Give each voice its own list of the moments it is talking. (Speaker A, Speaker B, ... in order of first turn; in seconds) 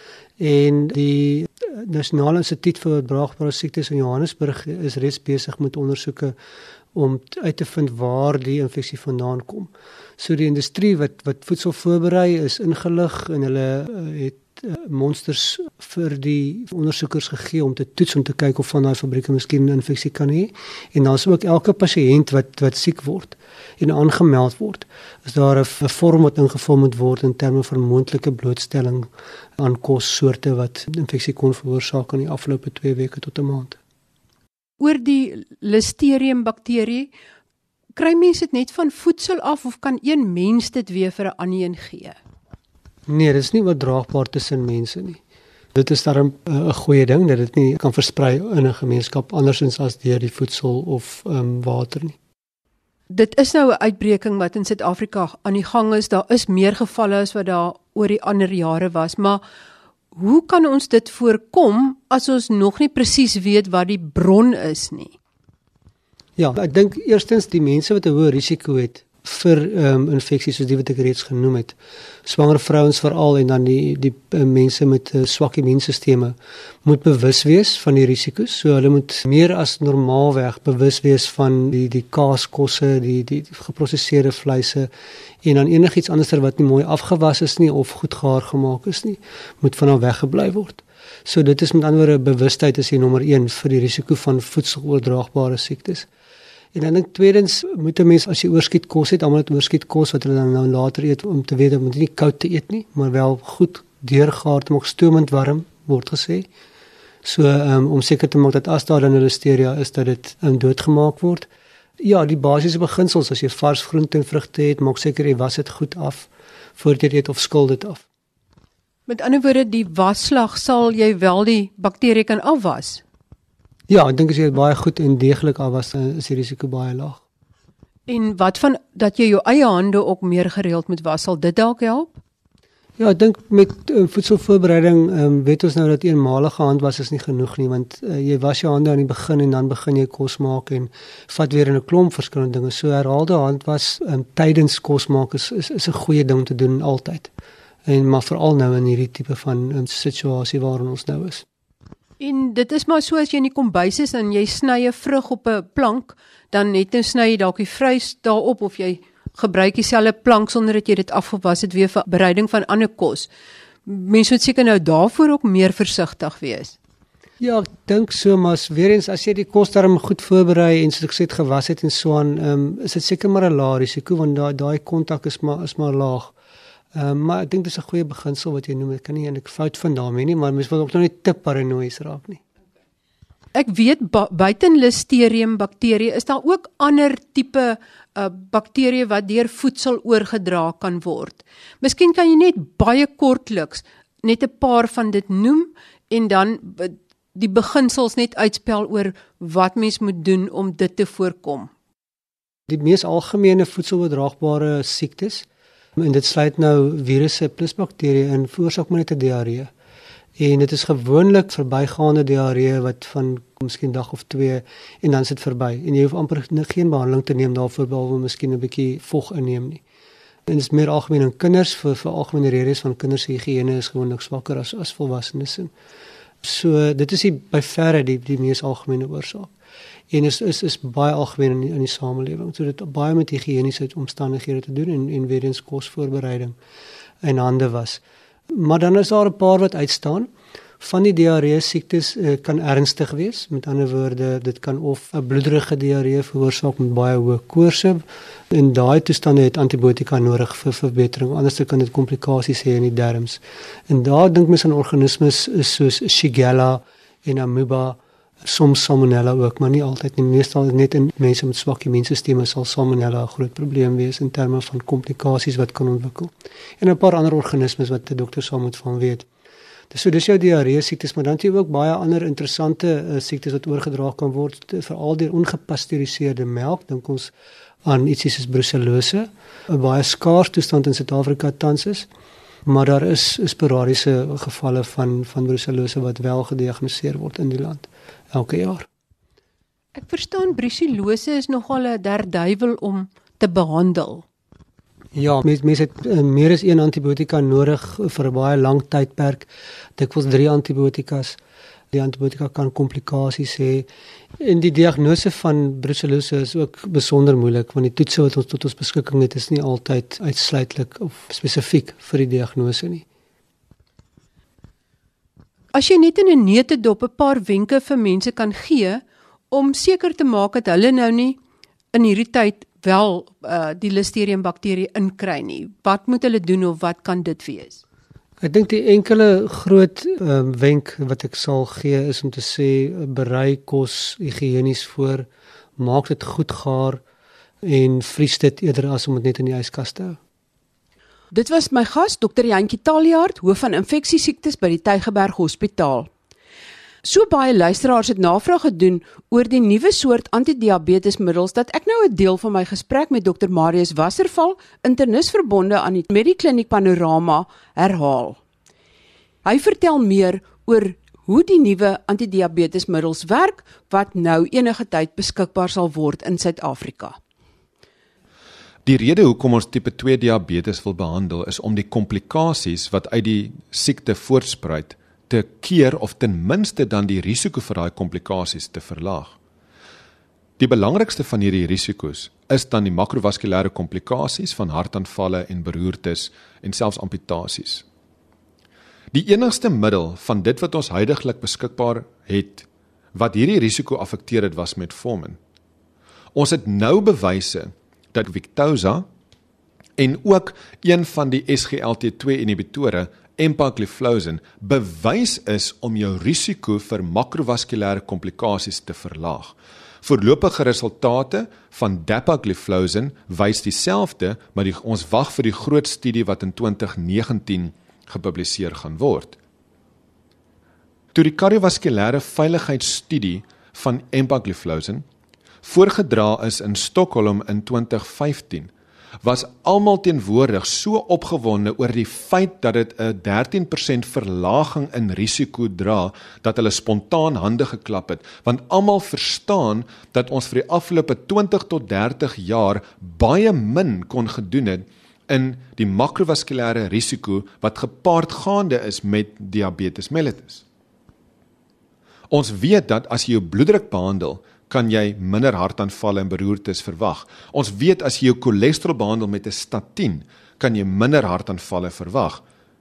Speaker A: 0.4-6.3, 6.9-33.8, 43.1-45.2, 45.7-52.2, 66.4-84.9, 85.4-96.1, 96.7-106.5, 107.2-111.5, 112.0-118.0, 123.9-127.2, 133.0-147.3, 147.8-151.4, 167.4-176.3, 176.9-182.4, 202.7-209.7, 210.4-219.8, 220.5-225.7, 226.4-229.5, 230.1-236.6, 237.2-269.3, 269.9-277.3, 277.8-282.1, 282.6-288.9, 295.1-301.4, 301.9-303.9, 304.4-313.0, 328.4-337.0, 337.6-340.2
Speaker B: 34.8-37.1, 38.0-42.1, 53.1-59.4, 60.1-65.1, 119.1-123.0, 128.1-132.2, 152.2-163.3, 163.8-166.8, 183.5-201.7, 289.9-294.2, 315.7-321.4, 321.9-327.8
Speaker C: 341.3-346.1, 347.0-358.4, 359.4-367.2
Speaker D: 368.8-379.4, 380.6-387.8, 389.1-395.4, 396.3-399.1, 400.0-419.4, 421.1-425.0, 425.6-428.7, 429.2-450.6, 452.3-462.4